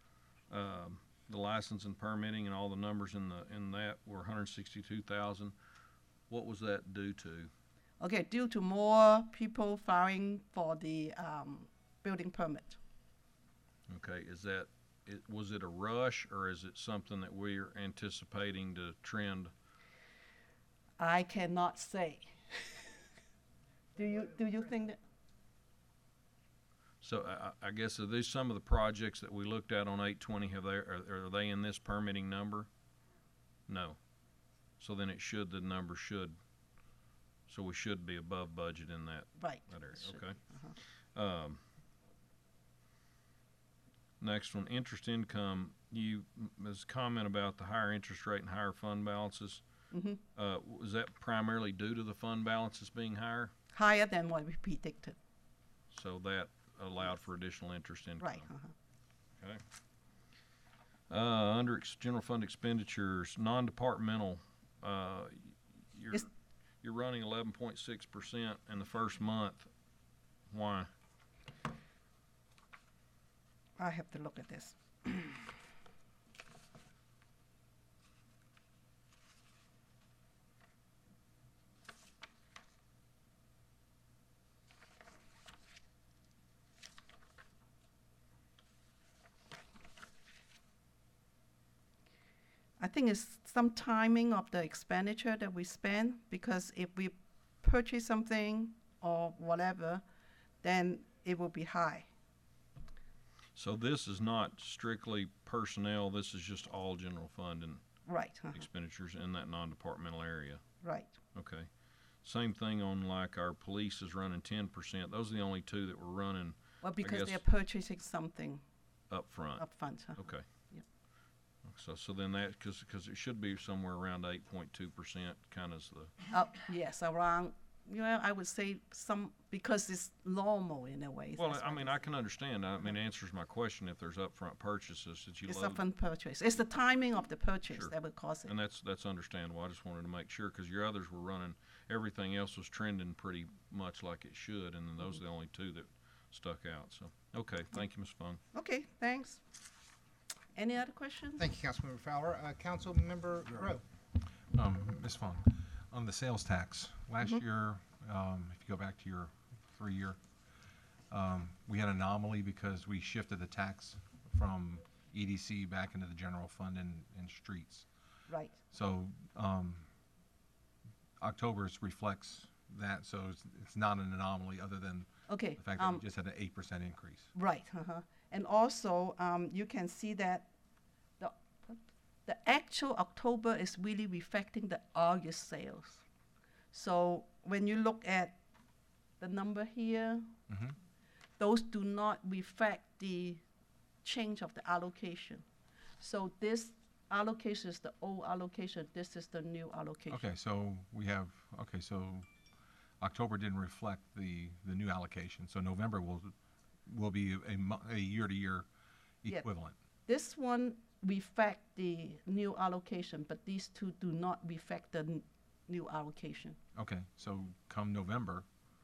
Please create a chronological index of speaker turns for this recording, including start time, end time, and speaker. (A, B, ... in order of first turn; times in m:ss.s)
0:00.5-0:05.5 A
0:06.3-0:07.5 A
0:08.0-0:12.8 B
0:13.9-0:19.5 A
0:21.0-0:22.9 B
0:24.0-0:25.0 B
0:27.0-0:32.7 A
0:33.7-0:34.0 A
0:34.8-0:36.4 A
0:37.5-0:41.6 A
0:39.4-0:40.8 B
0:44.2-0:49.6 A
0:49.9-0:50.2 B
0:50.3-0:53.5 A
0:53.7-0:55.2 B
0:55.9-0:58.5 A
0:58.2-0:58.7 B
1:01.1-1:06.3 A
1:06.8-1:09.7 A
1:10.5-1:10.9 A
1:13.8-1:15.5 B
1:32.8-1:40.0 B
1:40.6-1:42.1 B
1:43.6-1:47.8 A
1:48.1-1:48.7 B
1:48.5-1:50.6 A
1:50.8-1:51.2 B
1:51.3-1:51.7 A
1:52.2-1:57.4 A
1:56.8-1:58.6 B
1:59.1-2:00.4 A
1:59.6-2:00.8 B
2:01.6-2:06.1 A
2:06.3-2:12.1 B
2:11.4-2:15.8 A
2:15.5-2:18.5 B
2:17.7-2:17.9 A
2:18.4-2:28.4 A
2:28.5-2:29.4 B
2:30.6-2:31.5 B
2:31.4-2:33.8 C
2:34.5-2:40.2 D
2:41.1-2:47.8 D
2:48.3-2:48.6 B
2:48.7-2:49.9 D
2:51.2-2:57.3 D
2:55.3-2:56.0 B
2:57.3-3:00.5 B
3:01.2-3:06.0 B
3:06.7-3:08.4 B
3:09.2-3:10.3 B
3:10.5-3:10.8 D
3:11.4-3:13.4 B
3:14.0-3:15.4 B
3:16.0-3:20.2 B
3:20.1-3:22.2 D
3:23.0-3:26.3 D
3:26.8-3:28.7 D
3:29.2-3:29.8 D
3:30.1-3:36.6 B
3:36.8-3:38.5 D